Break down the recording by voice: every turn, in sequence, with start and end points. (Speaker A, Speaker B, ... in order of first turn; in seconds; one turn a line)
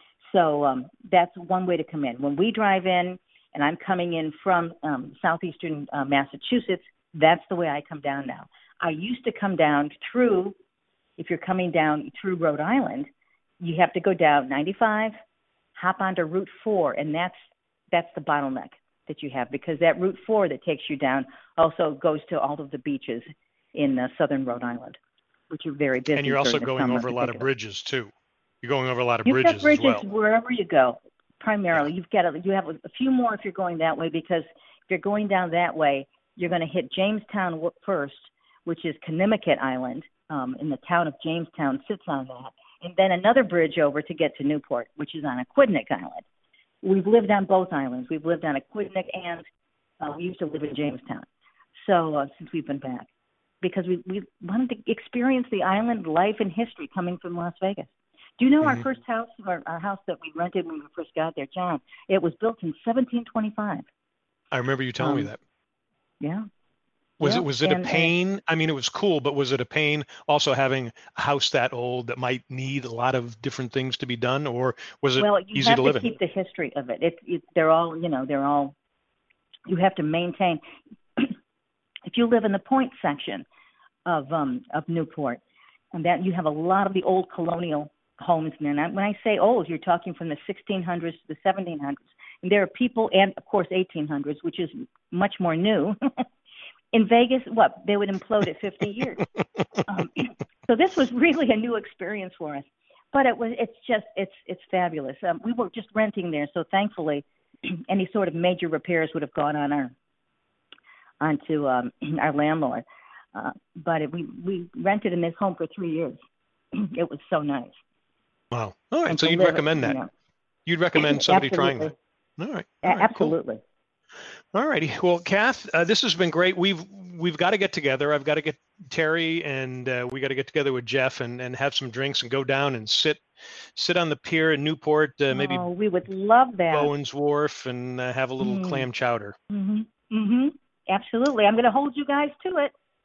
Speaker A: 0.2-10.6
Speaker A: 11.2-13.1
Speaker A: 13.6-15.2
Speaker A: 15.7-25.0
Speaker A: 25.5-27.4
Speaker B: 26.1-30.0
Speaker A: 29.2-46.2
Speaker A: 46.8-49.5
Speaker A: 50.0-53.1
Speaker A: 53.6-63.9
Speaker B: 64.5-65.4
Speaker A: 65.0-65.3
Speaker A: 66.2-66.5
Speaker B: 67.2-76.1
Speaker A: 67.2-68.1
Speaker A: 75.2-78.7
Speaker A: 79.7-80.6
Speaker A: 82.0-83.4
Speaker A: 84.0-85.4
Speaker A: 85.9-96.2
Speaker A: 96.9-99.2
Speaker A: 99.8-109.9
Speaker A: 111.2-116.2
Speaker A: 116.7-117.8
Speaker B: 118.5-120.0
Speaker A: 119.0-120.1
Speaker B: 120.7-123.3
Speaker A: 121.0-121.9
Speaker A: 122.8-123.6
Speaker B: 124.5-133.2
Speaker B: 133.7-135.6
Speaker A: 135.3-136.9
Speaker B: 136.7-139.3
Speaker A: 138.4-138.9
Speaker A: 139.5-142.7